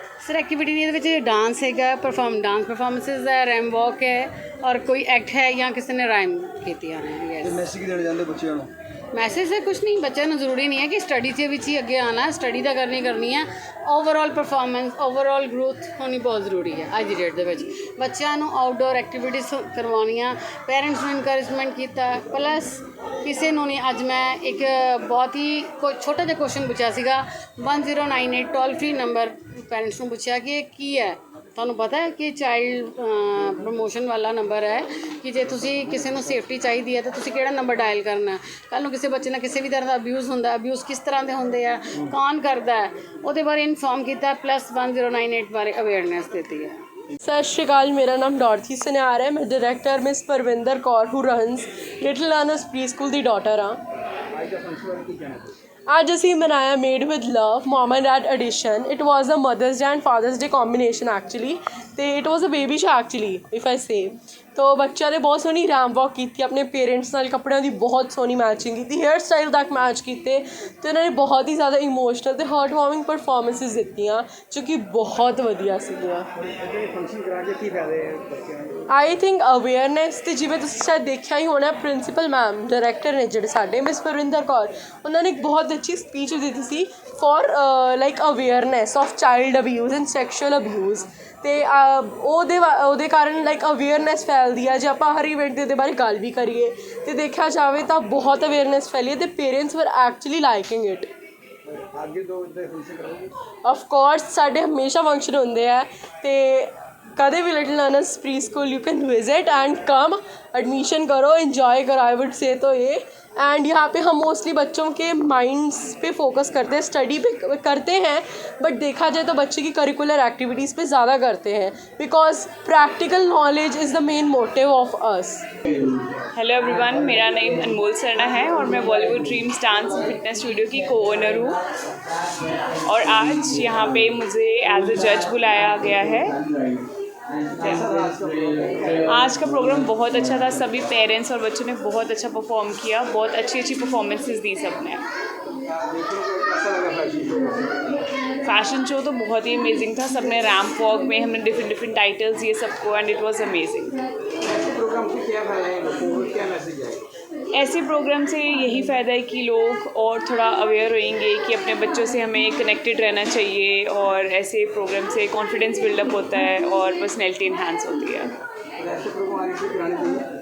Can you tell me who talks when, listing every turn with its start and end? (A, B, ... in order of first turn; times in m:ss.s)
0:00.2-0:07.6 A
0:07.4-0:08.7 B
0:09.1-0:46.7 A
0:47.2-0:53.8 C
0:54.3-0:55.5 B
0:55.9-1:16.3 C
1:16.4-1:18.8 B
1:18.9-1:41.1 C
1:41.7-1:43.3 B
1:43.6-2:05.4 C
2:06.3-2:11.6 D
2:12.8-2:16.4 D
2:17.6-2:17.9 D
2:17.6-2:19.0 B
2:19.0-2:25.0 D
2:25.8-2:27.8 B
2:28.4-2:34.0 D
2:34.4-2:37.0 B
2:37.5-2:48.3 D
2:48.8-2:50.3 B